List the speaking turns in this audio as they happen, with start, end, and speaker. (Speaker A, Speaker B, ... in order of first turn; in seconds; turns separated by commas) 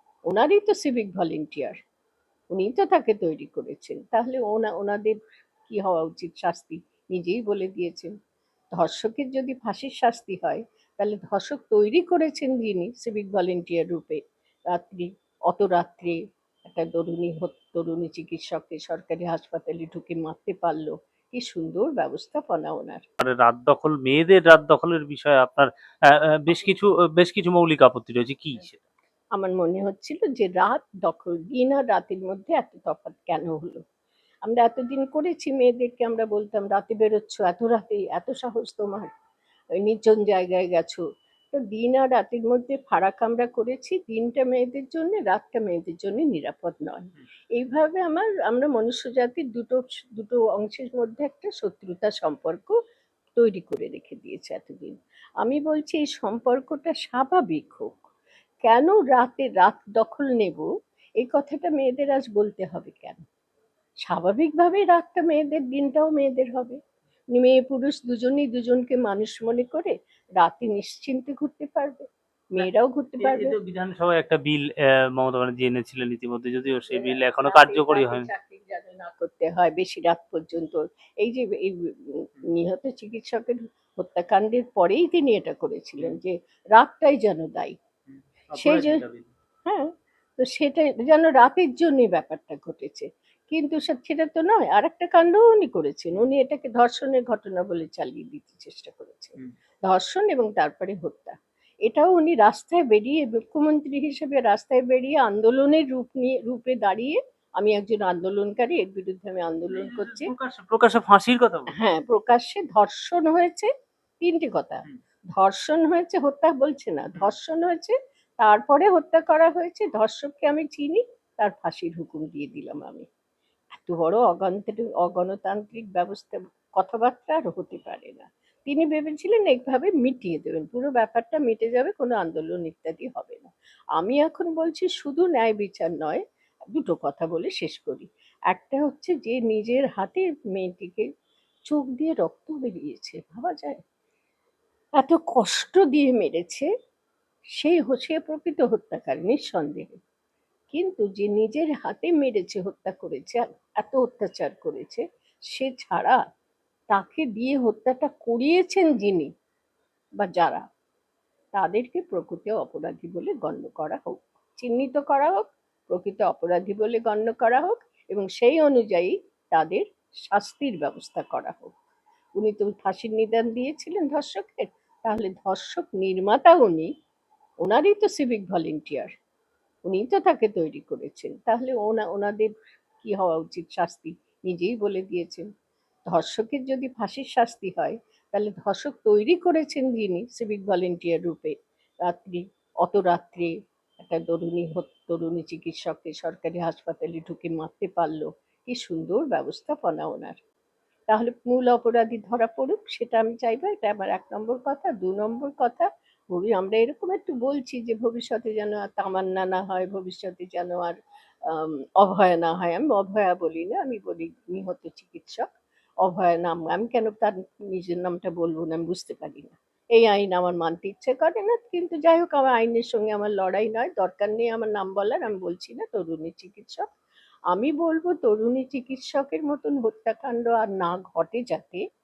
Speaker A: 0.3-1.8, Speaker A: 2.5-8.1, Speaker A: 8.8-23.0, Speaker B: 23.2-28.8, Speaker A: 29.4-33.8, Speaker A: 34.5-39.1, Speaker A: 39.8-52.8, Speaker A: 53.3-58.0, Speaker A: 58.6-60.7, Speaker A: 61.2-63.2, Speaker A: 64.0-66.8, Speaker A: 67.3-73.6, Speaker B: 72.6-78.3, Speaker A: 76.9-87.8, Speaker B: 88.1-89.3, Speaker A: 88.6-89.0, Speaker A: 89.7-110.3, Speaker B: 109.7-111.7, Speaker A: 111.7-113.7, Speaker A: 114.2-123.1, Speaker A: 123.7-136.2, Speaker A: 136.7-141.1, Speaker A: 141.7-143.8, Speaker A: 145.0-146.7, Speaker A: 147.6-150.0, Speaker A: 150.7-156.2, Speaker A: 156.9-159.3, Speaker A: 160.2-160.6, Speaker A: 161.5-171.7, Speaker A: 172.4-176.9, Speaker A: 177.6-179.1, Speaker A: 179.9-182.5, Speaker A: 183.0-185.5, Speaker A: 186.1-191.5, Speaker A: 192.1-193.5, Speaker A: 194.1-200.4, Speaker A: 201.1-215.5, Speaker A: 216.0-226.9, Speaker A: 227.5-231.8